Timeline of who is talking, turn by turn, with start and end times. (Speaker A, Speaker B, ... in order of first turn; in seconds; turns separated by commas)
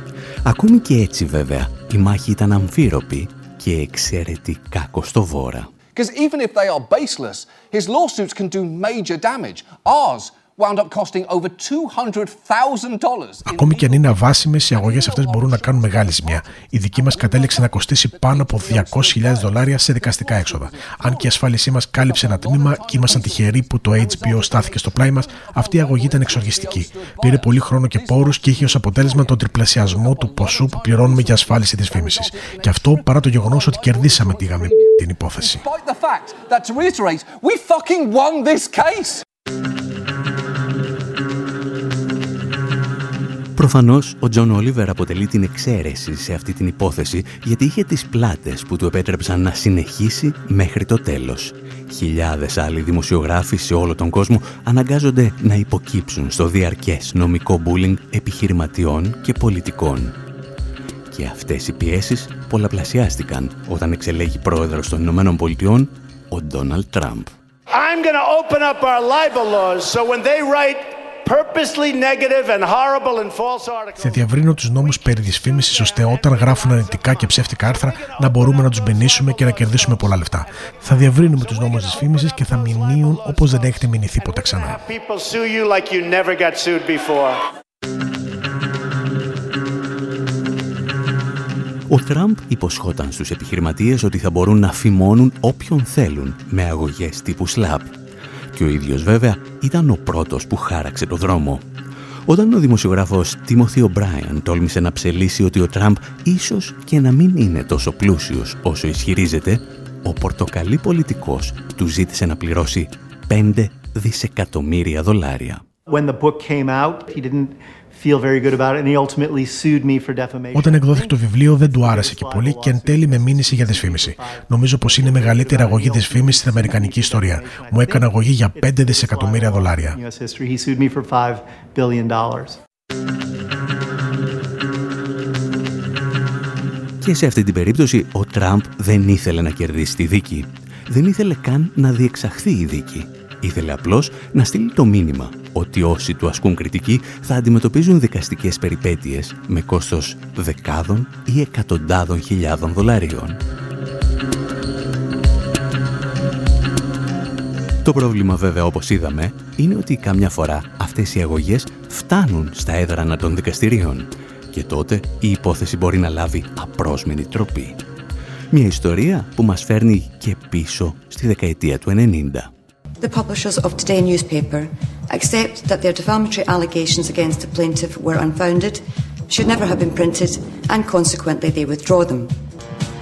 Speaker A: 0.5-5.7, Speaker B: 5.9-39.2, Speaker C: 13.5-35.6, Speaker A: 43.6-60.2, Speaker A: 61.1-67.3, Speaker D: 67.8-68.9, Speaker D: 69.7-70.8, Speaker D: 72.6-73.8, Speaker C: 74.0-84.8, Speaker D: 85.7-87.3, Speaker A: 91.9-97.9, Speaker A: 98.5-101.7, Speaker A: 102.3-115.6, Speaker E: 115.9-132.6, Speaker C: 120.5-130.0, Speaker A: 137.0-153.4, Speaker A: 157.8-167.8, Speaker A: 168.5-172.5, Speaker F: 173.0-182.3